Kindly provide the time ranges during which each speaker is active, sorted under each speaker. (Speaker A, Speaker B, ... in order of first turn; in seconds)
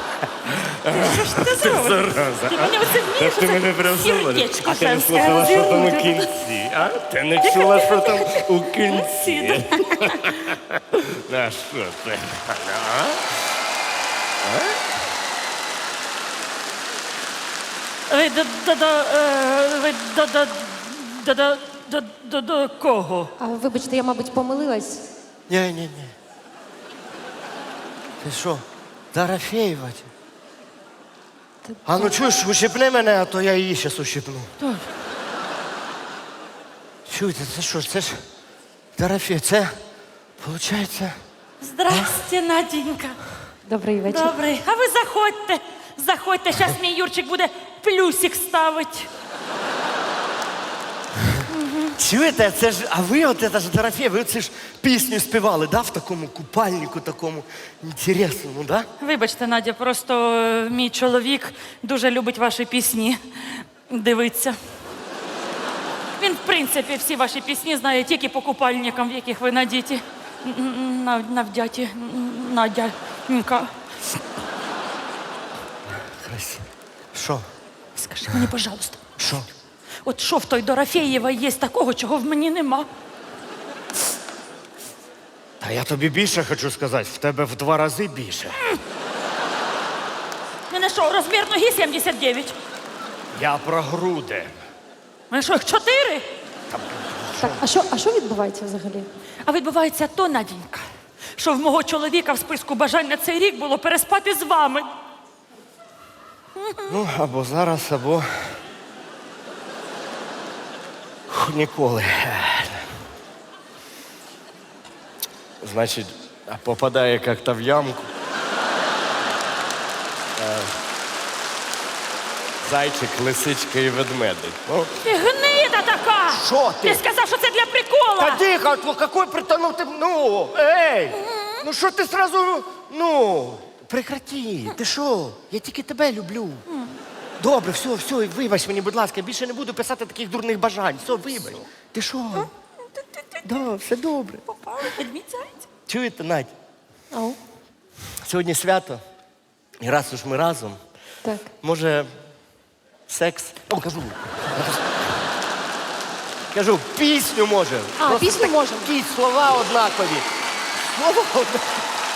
Speaker A: 0.4-13.2, 14.4-14.8, 25.5-26.1, 28.2-30.1, 31.9-34.5, 37.1-38.1, 39.0-39.7, 40.4-41.1, 52.0-58.9, 76.0-77.5, 79.2-79.5, 85.6-88.6, 93.3-94.5, 96.7-97.7, 106.9-108.3, 111.3-112.9, 115.6-118.1, 120.4-120.7, 122.6-124.9, 126.3-127.0, 128.2-136.6, 137.4-142.5, 143.4-144.4, 145.9-146.5, 148.2-149.0, 149.8-150.8, 151.6-152.1, 153.1-154.8, 156.5-160.2, 160.8-161.7
Speaker B: 0.9-6.4, 7.4-10.3, 18.1-23.3, 34.6-34.9, 41.6-43.2, 44.0-49.1, 51.5-52.0, 59.0-64.5, 66.2-74.2, 77.9-79.0, 80.0-82.9, 90.7-92.5, 95.3-96.2, 99.4-104.9, 106.6-106.9, 125.0-128.4, 131.1-131.6, 136.7-137.0, 144.5-145.6
Speaker C: 23.4-25.1, 31.7-32.0, 43.6-44.3, 97.4-99.1, 147.1-147.4, 151.2-151.5, 158.0-158.9